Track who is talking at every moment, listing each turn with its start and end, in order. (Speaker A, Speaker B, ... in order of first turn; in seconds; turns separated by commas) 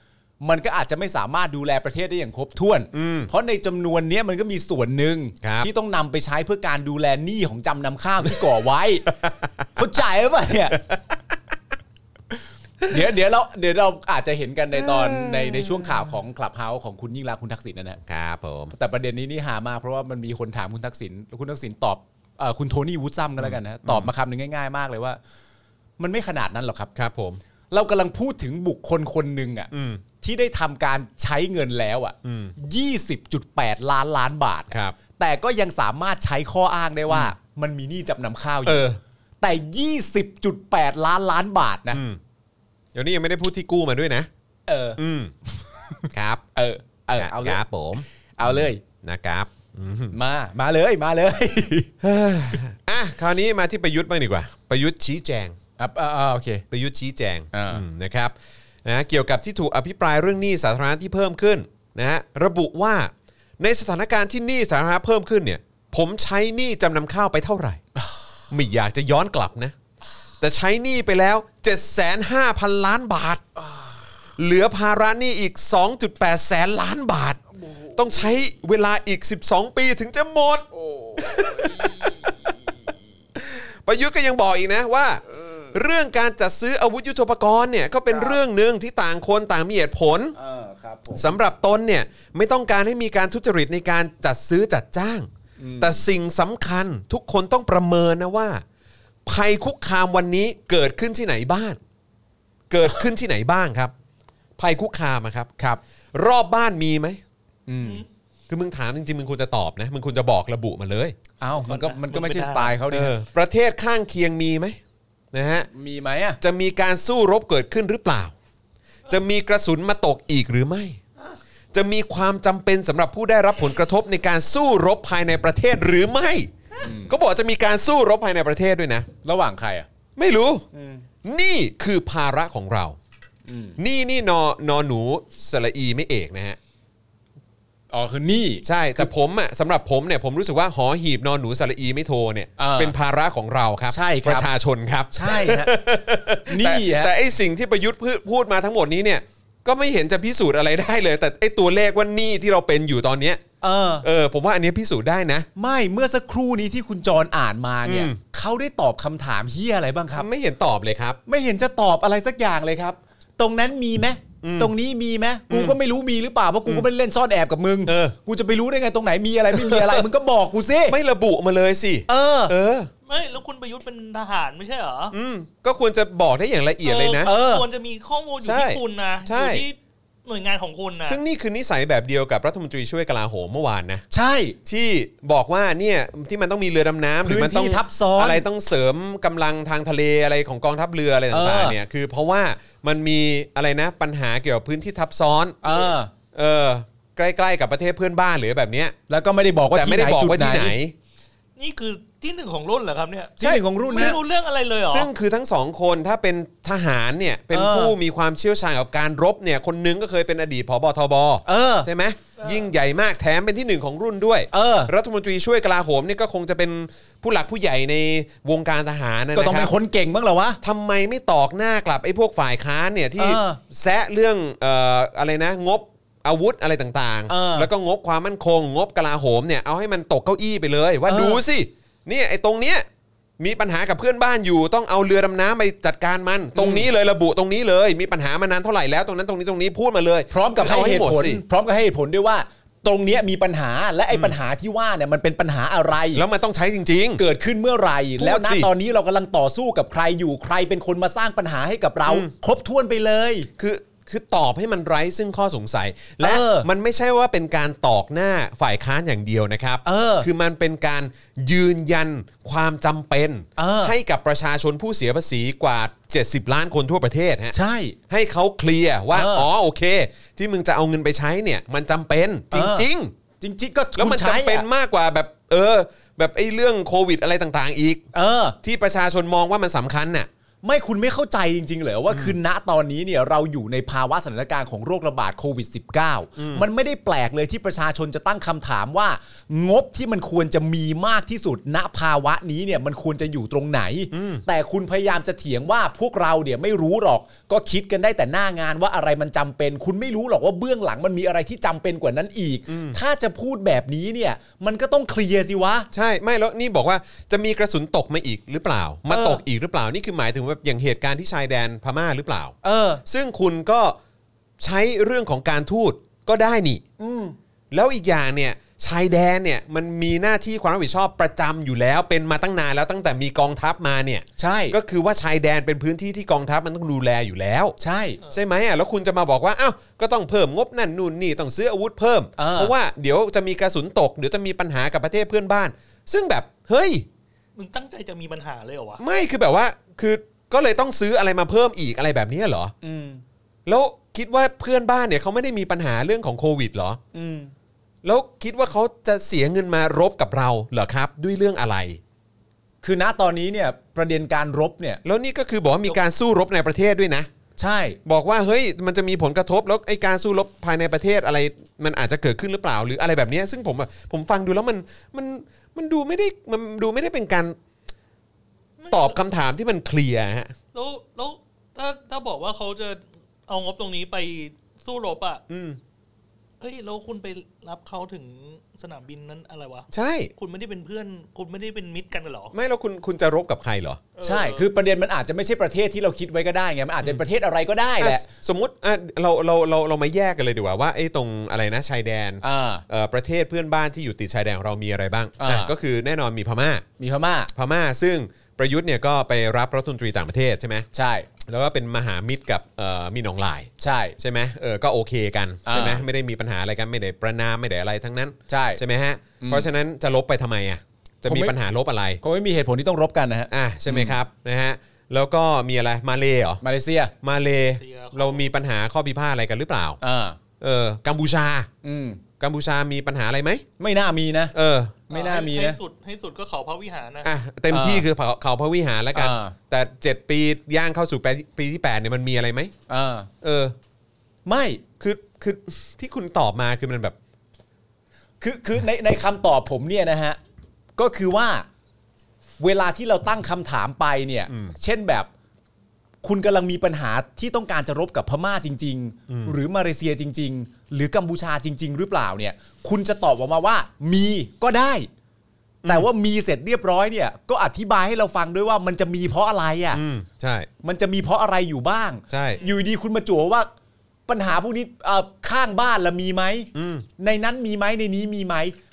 Speaker A: 0.4-9.1, Speaker B: 2.9-3.3, Speaker B: 5.4-5.7, Speaker B: 9.2-9.5, Speaker A: 9.8-10.8, Speaker A: 12.8-18.0, Speaker B: 14.9-15.8, Speaker B: 18.1-18.7, Speaker A: 18.7-25.2, Speaker B: 23.4-24.1, Speaker A: 26.0-26.9, Speaker B: 26.9-27.4, Speaker A: 27.7-38.9, Speaker B: 29.7-30.0, Speaker B: 32.2-32.5, Speaker B: 34.7-35.0, Speaker B: 37.1-37.3, Speaker B: 38.6-39.0, Speaker A: 39.4-42.0, Speaker B: 41.9-42.2, Speaker B: 42.9-44.3, Speaker A: 44.7-45.0, Speaker B: 45.0-45.3, Speaker B: 46.1-46.4, Speaker A: 46.5-47.6, Speaker B: 47.1-50.1, Speaker A: 48.4-48.8, Speaker A: 50.1-51.9, Speaker B: 52.0-55.5, Speaker A: 55.8-56.6, Speaker B: 56.7-67.8, Speaker A: 57.5-57.8, Speaker B: 68.5-69.7, Speaker B: 70.4-73.5, Speaker B: 74.4-77.4, Speaker A: 77.6-78.0, Speaker B: 77.9-82.1, Speaker A: 80.7-82.3, Speaker B: 83.3-90.3, Speaker A: 88.1-88.4, Speaker A: 90.3-91.3, Speaker B: 91.1-95.3, Speaker A: 95.6-96.0, Speaker B: 95.8-98.6, Speaker B: 99.2-101.8, Speaker B: 102.7-103.9, Speaker B: 104.6-105.5, Speaker B: 106.1-107.2, Speaker A: 107.7-108.0, Speaker C: 107.8-108.0, Speaker B: 108.5-111.2, Speaker A: 111.4-113.1, Speaker C: 111.6-112.8, Speaker B: 112.9-114.8, Speaker B: 115.3-115.7, Speaker A: 115.7-116.4, Speaker B: 116.4-118.3, Speaker B: 119.1-121.0, Speaker B: 121.7-129.1, Speaker A: 126.8-127.1, Speaker A: 129.2-129.9, Speaker B: 130.2-130.7, Speaker A: 130.7-131.0, Speaker B: 131.2-133.0, Speaker A: 133.5-133.8, Speaker B: 133.8-136.6, Speaker A: 137.9-139.1, Speaker B: 138.6-153.4, Speaker A: 142.6-142.9, Speaker A: 143.9-144.5, Speaker A: 145.1-145.7, Speaker A: 146.5-147.1, Speaker A: 153.6-154.1, Speaker B: 154.0-155.5, Speaker A: 155.6-160.3, Speaker B: 157.8-158.2, Speaker B: 160.2-161.2, Speaker A: 161.3-171.0, Speaker B: 164.4-164.7, Speaker B: 165.5-165.8, Speaker B: 167.8-168.2, Speaker B: 169.5-170.1, Speaker B: 170.9-172.9, Speaker A: 172.1-172.5, Speaker C: 173.1-175.1, Speaker B: 175.1-177.3, Speaker C: 176.8-181.2, Speaker A: 177.2-177.7, Speaker B: 178.4-179.6, Speaker B: 181.0-184.0, Speaker A: 184.1-184.6, Speaker B: 184.6-198.9, Speaker A: 187.2-188.4, Speaker A: 191.3-191.8, Speaker A: 195.6-196.1, Speaker A: 199.1-200.7, Speaker B: 199.7-200.9, Speaker C: 201.6-205.1, Speaker A: 203.4-204.2, Speaker B: 203.4-204.2, Speaker B: 204.8-219.7, Speaker A: 207.5-207.9, Speaker A: 211.4-211.9, Speaker A: 214.5-214.9, Speaker A: 219.3-220.6, Speaker B: 220.6-232.8, Speaker A: 223.2-223.6, Speaker A: 227.3-227.7, Speaker A: 231.1-231.4, Speaker B: 233.4-241.4, Speaker A: 236.6-236.9, Speaker A: 240.3-246.2, Speaker B: 244.1-244.3, Speaker B: 246.1-247.2, Speaker A: 247.2-253.5, Speaker B: 248.2-248.7, Speaker B: 253.6-267.5, Speaker A: 256.2-256.7, Speaker A: 259.8-260.3, Speaker A: 263.6-263.9, Speaker A: 267.5-268.0, Speaker B: 268.1-273.1, Speaker A: 269.1-269.5, Speaker A: 272.5-272.9, Speaker A: 273.4-274.6, Speaker B: 273.9-278.0, Speaker A: 278.1-278.6, Speaker B: 278.6-280.3, Speaker A: 280.6-305.9, Speaker B: 282.1-282.3, Speaker B: 286.4-286.6, Speaker B: 294.1-294.4, Speaker B: 302.7-303.0, Speaker B: 305.9-312.5, Speaker A: 309.1-309.4, Speaker A: 312.6-313.0, Speaker B: 313.1-314.0, Speaker B: 314.6-316.8, Speaker A: 317.0-317.4, Speaker B: 317.7-327.8, Speaker A: 324.4-324.8, Speaker A: 327.8-328.2, Speaker B: 328.3-337.1, Speaker A: 332.4-332.7, Speaker C: 337.6-339.0, Speaker B: 339.0-342.7, Speaker A: 342.8-343.2, Speaker B: 343.6-347.0, Speaker A: 347.1-347.5, Speaker B: 348.0-352.0, Speaker A: 352.8-355.0, Speaker B: 355.0-357.3, Speaker A: 357.6-358.0, Speaker B: 358.0-367.6, Speaker C: 368.8-369.2, Speaker B: 368.9-370.5, Speaker C: 370.7-375.4, Speaker B: 375.5-375.8, Speaker C: 376.6-382.5, Speaker B: 379.9-380.3, Speaker B: 382.5-384.0, Speaker C: 384.1-384.7, Speaker A: 384.2-388.2, Speaker B: 388.0-396.8, Speaker A: 392.4-392.8, Speaker A: 395.4-395.7, Speaker A: 397.0-397.5, Speaker B: 397.5-400.9, Speaker A: 400.9-401.3, Speaker B: 401.4-412.2, Speaker A: 403.8-404.1, Speaker A: 405.6-406.0, Speaker A: 408.5-408.8, Speaker A: 409.4-409.7, Speaker A: 411.2-411.6, Speaker A: 412.2-414.1, Speaker B: 413.5-416.6, Speaker A: 416.6-417.1, Speaker B: 417.2-420.0, Speaker C: 417.8-418.5, Speaker A: 420.0-420.4, Speaker B: 420.6-421.7, Speaker A: 421.8-422.2, Speaker B: 422.4-423.6, Speaker A: 423.8-424.5, Speaker B: 424.5-425.0, Speaker A: 425.1-425.8, Speaker C: 425.1-427.3, Speaker B: 427.2-432.7, Speaker A: 427.7-428.1, Speaker A: 429.1-429.6, Speaker A: 432.9-433.3, Speaker B: 433.4-433.7, Speaker A: 434.4-434.8, Speaker B: 435.0-437.1, Speaker A: 438.4-440.4, Speaker A: 441.0-441.7, Speaker A: 442.6-445.3, Speaker B: 444.5-444.8, Speaker A: 446.2-455.1, Speaker B: 449.3-449.5, Speaker A: 455.9-460.0, Speaker B: 459.9-460.7, Speaker A: 460.8-463.7, Speaker B: 462.3-462.6, Speaker A: 464.3-468.7, Speaker B: 466.7-467.1